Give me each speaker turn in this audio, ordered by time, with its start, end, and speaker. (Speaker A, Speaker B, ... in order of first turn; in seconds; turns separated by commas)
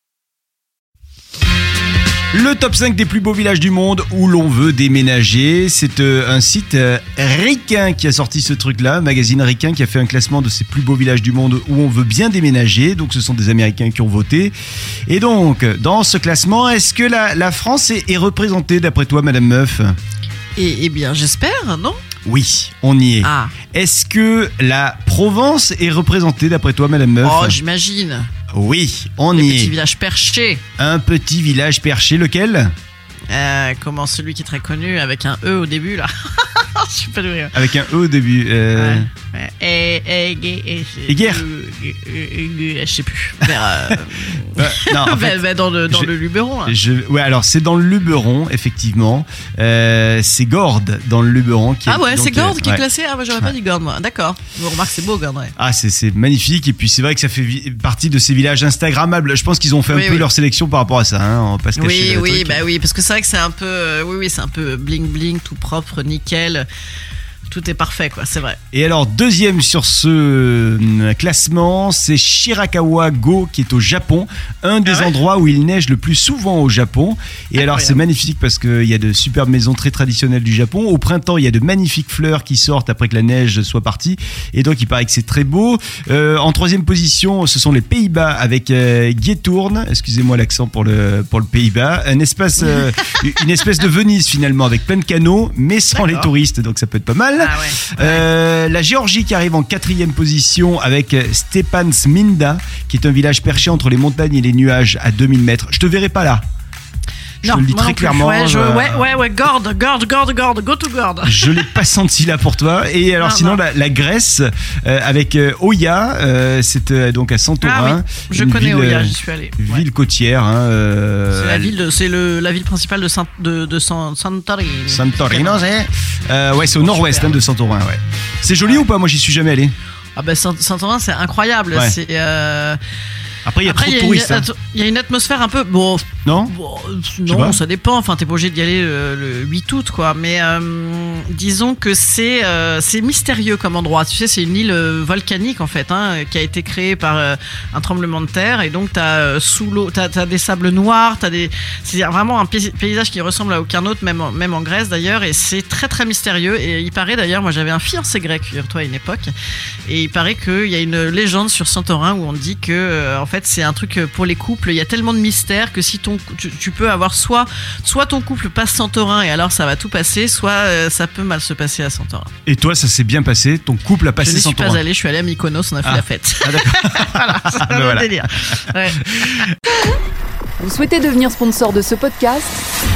Speaker A: 2.3-14.5, Speaker A: 15.1-19.9, Speaker B: 20.5-22.0, Speaker A: 22.2-27.6, Speaker B: 23.2-23.5, Speaker B: 27.2-28.3, Speaker A: 28.5-29.7, Speaker B: 29.3-30.6, Speaker A: 30.8-32.7, Speaker B: 33.3-37.6, Speaker A: 37.5-39.1, Speaker B: 38.7-46.7, Speaker A: 41.1-41.4, Speaker A: 43.5-43.9, Speaker A: 44.5-45.4, Speaker A: 46.6-52.8, Speaker B: 51.9-55.5, Speaker A: 55.6-62.6, Speaker B: 59.9-60.3, Speaker B: 61.7-66.7, Speaker B: 67.5-68.6, Speaker A: 68.7-106.4, Speaker B: 74.8-75.1, Speaker B: 77.5-78.0, Speaker B: 95.9-96.3, Speaker B: 97.3-98.3, Speaker B: 107.4-111.8, Speaker A: 107.4-109.2, Speaker A: 111.2-121.7, Speaker B: 113.2-113.6, Speaker B: 117.6-119.8, Speaker B: 121.3-125.6, Speaker A: 124.9-129.7, Speaker B: 126.6-127.4, Speaker B: 130.1-132.8, Speaker A: 133.4-134.5, Speaker B: 133.6-159.3, Speaker A: 136.2-136.5, Speaker A: 137.2-137.6, Speaker B: 159.8-172.3, Speaker A: 172.4-174.8, Speaker B: 174.2-179.4, Speaker A: 175.8-178.2, Speaker C: 180.6-182.6